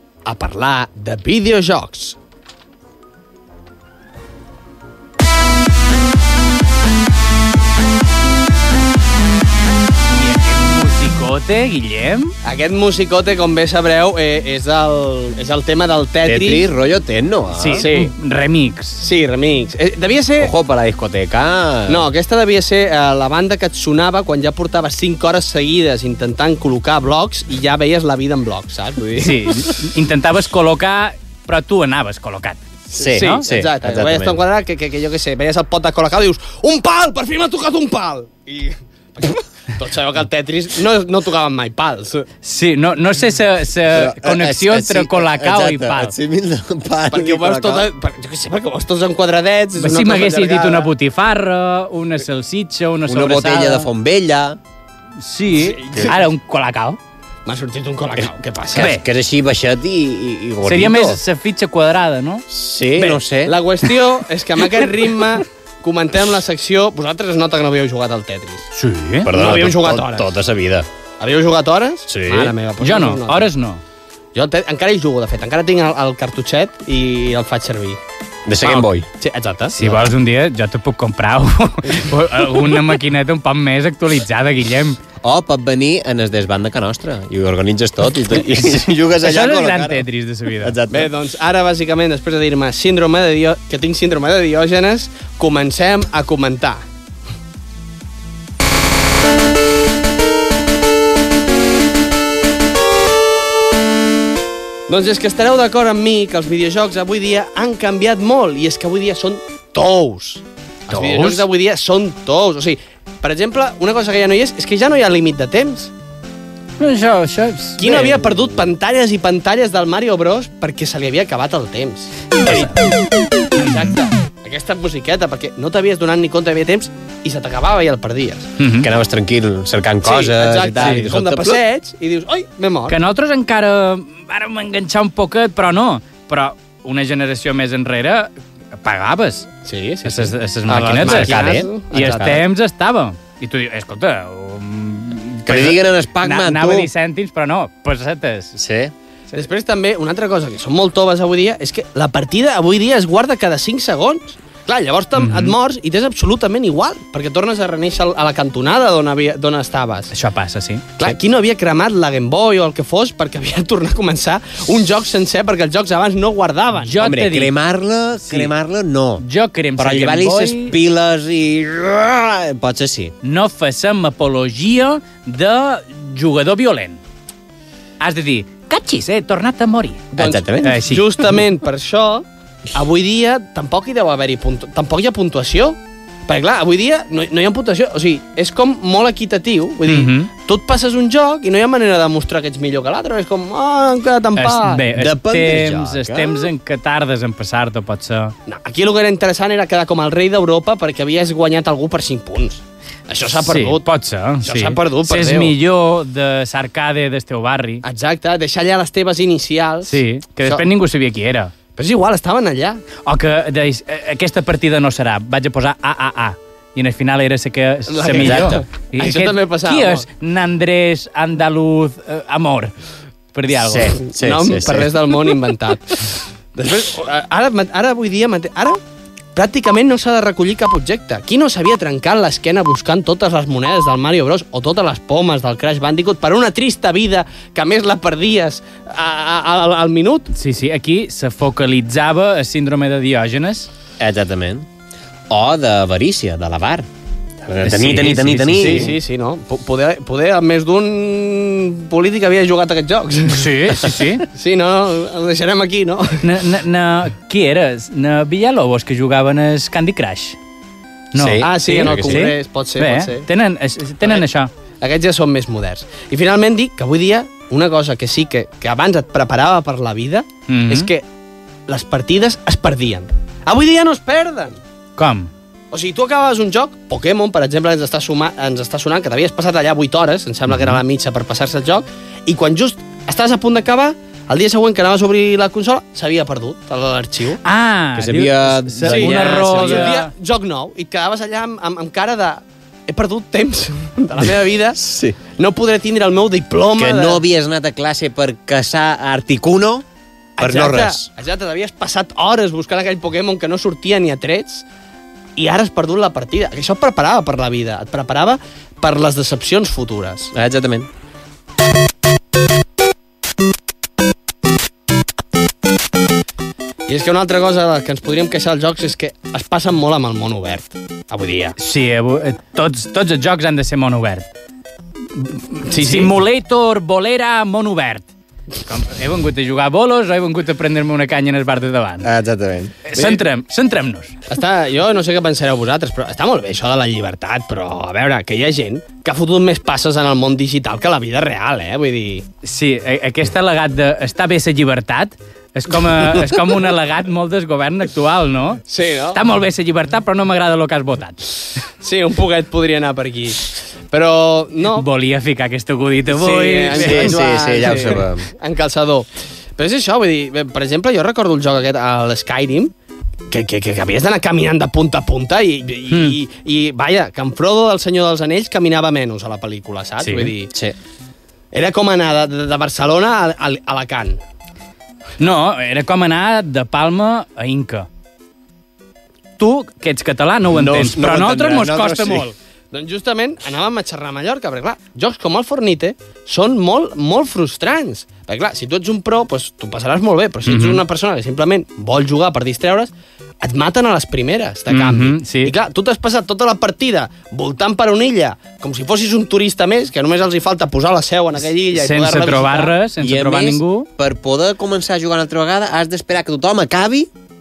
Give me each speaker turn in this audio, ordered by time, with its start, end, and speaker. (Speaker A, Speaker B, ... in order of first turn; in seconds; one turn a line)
Speaker A: 0.2-2.2
Speaker B: 10.1-12.3
Speaker A: 12.4-16.6
Speaker C: 16.2-17.9
Speaker B: 17.5-19.0
Speaker A: 17.8-18.1
Speaker A: 19.0-20.5
Speaker C: 20.4-22.1
Speaker A: 21.9-29.7
Speaker B: 29.2-33.5
Speaker A: 32.9-42.3
Speaker C: 32.9-34.4
Speaker B: 42.4-46.1
Speaker C: 43.9-47.9
Speaker A: 47.1-50.9
Speaker B: 49.8-53.9
Speaker C: 53.0-54.6
Speaker B: 55.2-57.0
Speaker A: 55.5-56.2
Speaker A: 57.5-58.9
Speaker C: 58.2-61.2
Speaker B: 58.8-59.0
Speaker B: 60.6-62.5
Speaker C: 62.5-63.6
Speaker A: 63.0-68.7
Speaker B: 68.7-69.3
Speaker C: 69.2-70.9
Speaker A: 69.3-70.3
Speaker A: 71.2-73.5
Speaker C: 72.1-72.5
Speaker B: 72.8-73.8
Speaker A: 74.3-78.0
Speaker C: 78.5-79.1
Speaker A: 78.6-79.8
Speaker B: 79.7-85.0
Speaker C: 85.2-90.1
Speaker B: 88.5-90.8
Speaker C: 90.6-91.1
Speaker A: 90.9-96.8
Speaker A: 104.9-115.9
Speaker B: 110.9-111.5
Speaker B: 116.8-118.2
Speaker A: 117.8-122.9
Speaker B: 122.4-122.8
Speaker A: 123.6-128.5
Speaker B: 128.6-128.9
Speaker C: 128.8-131.6
Speaker A: 130.0-133.0
Speaker B: 130.8-131.0
Speaker B: 132.9-139.5
Speaker A: 139.6-142.4
Speaker B: 140.0-148.5
Speaker C: 141.0-142.3
Speaker C: 145.4-146.9
Speaker C: 148.5-148.9
Speaker A: 149.3-160.1
Speaker B: 155.2-155.6
Speaker B: 160.1-160.9
Speaker A: 161.0-167.0
Speaker B: 166.8-167.5
Speaker C: 167.0-169.2
Speaker B: 168.2-168.5
Speaker B: 169.2-170.8
Speaker C: 169.8-173.1
Speaker B: 173.2-177.0
Speaker B: 178.0-181.0
Speaker C: 180.2-180.8
Speaker A: 180.2-194.8
Speaker B: 189.9-190.3
Speaker B: 194.4-198.3
Speaker C: 194.9-196.5
Speaker A: 198.5-203.8
Speaker B: 203.4-207.8
Speaker A: 204.4-205.5
Speaker A: 207.8-210.7
Speaker B: 209.8-211.5
Speaker A: 211.7-212.8
Speaker B: 213.0-222.7
Speaker A: 217.9-220.1
Speaker C: 218.1-218.6
Speaker B: 223.3-224.0
Speaker C: 223.5-224.9
Speaker A: 224.1-228.8
Speaker A: 229.3-240.3
Speaker B: 240.3-243.7
Speaker C: 244.0-244.7
Speaker C: 245.3-246.9
Speaker C: 247.4-248.9
Speaker B: 247.6-248.9
Speaker A: 248.6-256.2
Speaker B: 253.3-254.2
Speaker B: 256.2-260.4
Speaker B: 261.1-264.5
Speaker C: 261.1-262.3
Speaker A: 261.4-263.3
Speaker A: 264.8-271.0
Speaker B: 270.5-270.9
Speaker A: 271.7-274.6
Speaker B: 275.0-275.3
Speaker A: 275.7-287.4
Speaker B: 280.5-280.8
Speaker B: 287.4-290.1
Speaker C: 287.9-290.0
Speaker A: 288.8-294.8
Speaker C: 294.8-295.2
Speaker A: 295.3-297.2
Speaker C: 296.8-299.9
Speaker A: 300.4-304.6
Speaker C: 300.4-301.1
Speaker A: 305.4-310.3
Speaker C: 310.3-310.9
Speaker A: 316.9-321.6
Speaker B: 321.6-324.3
Speaker B: 325.1-328.1
Speaker A: 325.7-326.1
Speaker B: 328.6-332.1
Speaker C: 332.0-332.8
Speaker B: 332.9-334.1
Speaker A: 334.3-342.2
Speaker B: 342.4-351.3
Speaker A: 348.7-349.2
Speaker A: 351.8-354.9
Speaker B: 354.7-357.1
Speaker A: 356.1-362.7
Speaker C: 356.7-358.3
Speaker A: 363.3-370.5
Speaker B: 365.9-366.2
Speaker B: 370.0-370.3
Speaker C: 370.5-370.8
Speaker A: 371.5-374.2
Speaker B: 375.2-377.9
Speaker B: 379.4-382.3
Speaker C: 380.5-382.2
Speaker A: 382.7-402.7
Speaker B: 390.4-390.8
Speaker B: 394.7-395.5
Speaker B: 401.7-403.9
Speaker C: 403.0-407.1